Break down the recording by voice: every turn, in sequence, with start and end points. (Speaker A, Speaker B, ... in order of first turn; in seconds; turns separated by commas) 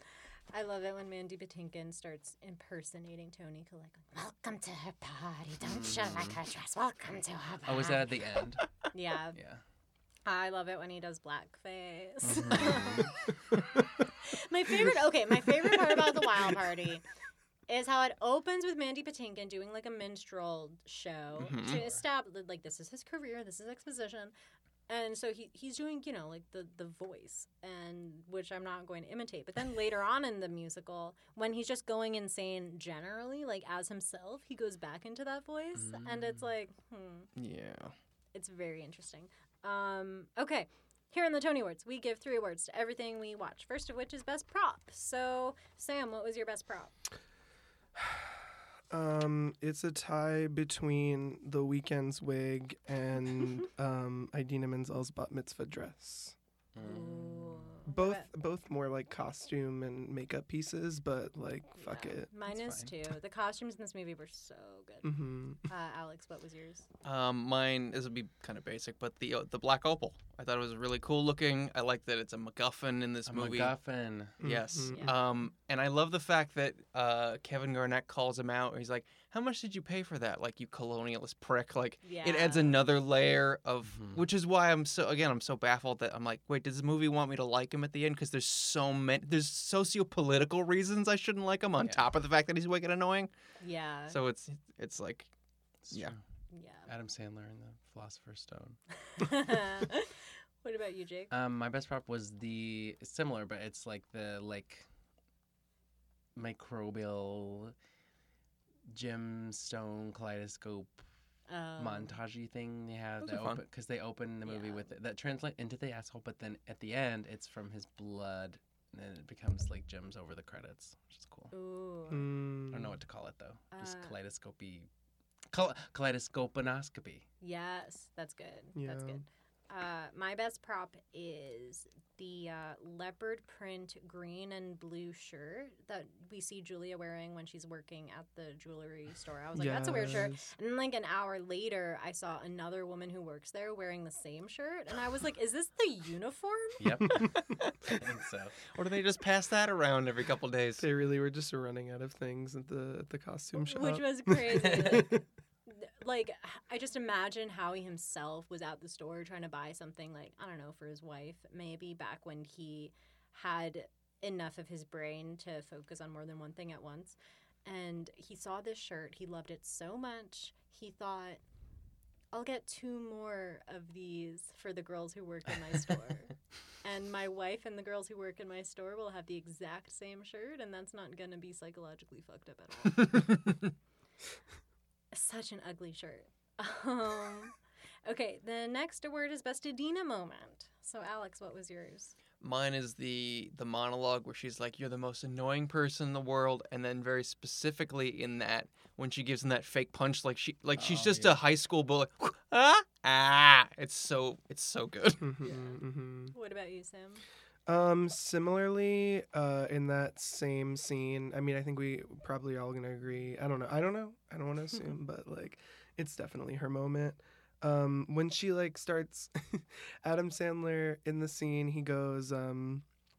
Speaker A: 0.5-8.1, Speaker B: 5.6-6.4, Speaker B: 7.7-8.7, Speaker A: 8.9-9.4, Speaker B: 9.3-9.6, Speaker A: 10.3-13.2, Speaker B: 12.2-13.1, Speaker A: 14.2-17.1, Speaker A: 17.7-24.3, Speaker C: 21.4-21.9, Speaker A: 24.9-37.3, Speaker B: 35.8-36.4, Speaker C: 37.4-38.0, Speaker A: 38.3-46.9, Speaker D: 48.0-56.4, Speaker B: 56.8-57.8, Speaker A: 56.8-58.3, Speaker D: 57.9-62.3, Speaker A: 61.8-66.9, Speaker B: 62.5-63.0, Speaker D: 65.0-65.7, Speaker C: 67.0-73.7, Speaker B: 73.3-74.4, Speaker D: 74.4-75.1, Speaker C: 74.4-93.3, Speaker A: 74.9-75.2, Speaker A: 82.0-82.8, Speaker B: 83.9-84.2, Speaker B: 91.8-92.1, Speaker A: 93.6-94.2, Speaker C: 94.1-95.3, Speaker B: 95.8-96.2, Speaker A: 96.5-96.9, Speaker B: 96.9-98.8, Speaker A: 99.1-101.3, Speaker B: 101.3-104.9, Speaker B: 106.3-107.8, Speaker B: 108.9-111.0, Speaker A: 111.5-112.2, Speaker B: 111.8-121.5, Speaker C: 113.2-113.6, Speaker A: 114.5-114.9, Speaker A: 121.5-122.3, Speaker D: 122.1-123.0, Speaker B: 122.7-124.9, Speaker A: 123.7-124.2, Speaker B: 125.5-127.3, Speaker A: 127.4-146.9, Speaker D: 128.8-129.2, Speaker D: 139.6-140.5, Speaker B: 146.8-148.6, Speaker C: 148.7-150.8, Speaker D: 150.8-155.0, Speaker A: 153.6-171.4, Speaker B: 154.6-155.1, Speaker A: 172.3-183.1, Speaker A: 185.1-187.6, Speaker A: 188.1-192.2, Speaker C: 192.4-205.2, Speaker B: 200.8-201.4, Speaker D: 205.2-206.3, Speaker A: 205.4-205.8, Speaker A: 206.3-207.2, Speaker D: 207.7-222.8